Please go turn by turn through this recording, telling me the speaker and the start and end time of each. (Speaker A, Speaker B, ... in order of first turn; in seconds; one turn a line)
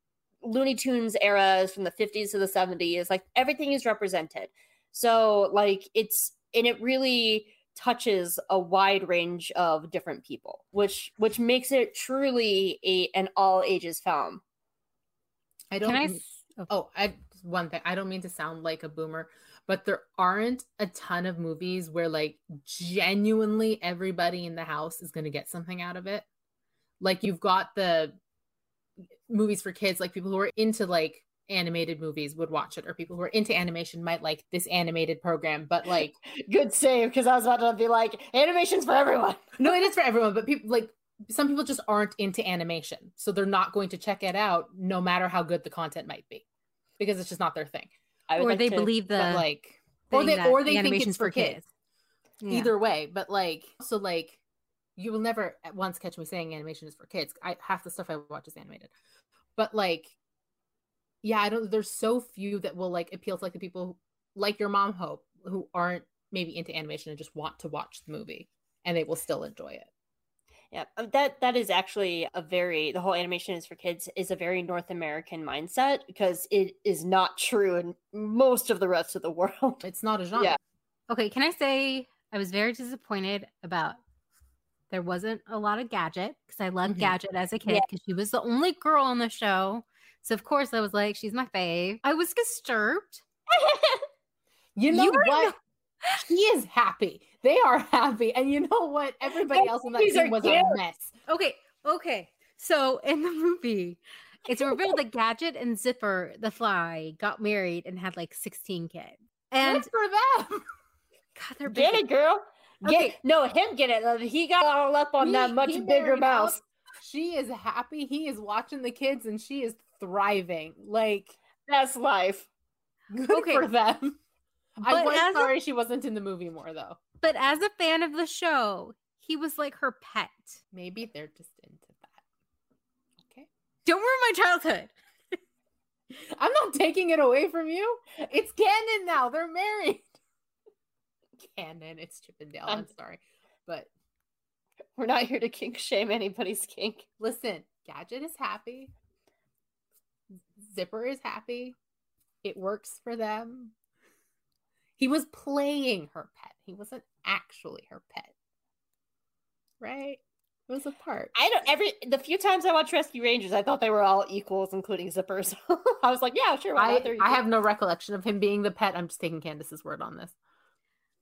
Speaker A: 0.4-14.4
Speaker B: 15.7-26.3
Speaker C: 15.8-16.7
Speaker B: 27.0-28.2
Speaker B: 29.3-36.1
Speaker A: 36.3-39.8
Speaker B: 39.6-46.5
Speaker B: 47.0-47.9
Speaker A: 48.3-48.9
Speaker C: 48.4-49.5
Speaker B: 49.1-51.6
Speaker C: 50.1-51.6
Speaker C: 52.4-52.7
Speaker B: 52.5-54.4
Speaker B: 55.0-58.9
Speaker B: 59.6-60.2
Speaker B: 61.2-69.9
Speaker A: 70.7-79.9
Speaker B: 79.8-80.6
Speaker C: 81.1-84.0
Speaker C: 84.9-93.2
Speaker B: 86.8-87.1
Speaker A: 93.5-94.0
Speaker B: 94.8-95.5
Speaker C: 94.9-95.5
Speaker B: 96.2-101.2
Speaker A: 99.5-100.8
Speaker C: 101.3-109.9
Speaker B: 109.6-110.7
Speaker C: 111.4-112.0
Speaker A: 111.7-116.6
Speaker C: 112.8-113.2
Speaker B: 115.2-121.4
Speaker A: 121.7-122.5
Speaker B: 123.1-124.2
Speaker C: 123.3-123.7
Speaker B: 124.8-127.0
Speaker C: 124.9-125.5
Speaker C: 127.2-130.6
Speaker B: 130.7-132.2
Speaker B: 133.2-133.5
Speaker C: 133.9-134.9
Speaker B: 136.4-140.2
Speaker B: 141.4-143.9
Speaker A: 145.0-147.1
Speaker B: 147.2-148.9
Speaker B: 150.6-151.8
Speaker B: 152.4-153.7
Speaker B: 155.0-158.3
Speaker B: 159.8-161.3
Speaker A: 161.3-167.4
Speaker B: 166.8-170.3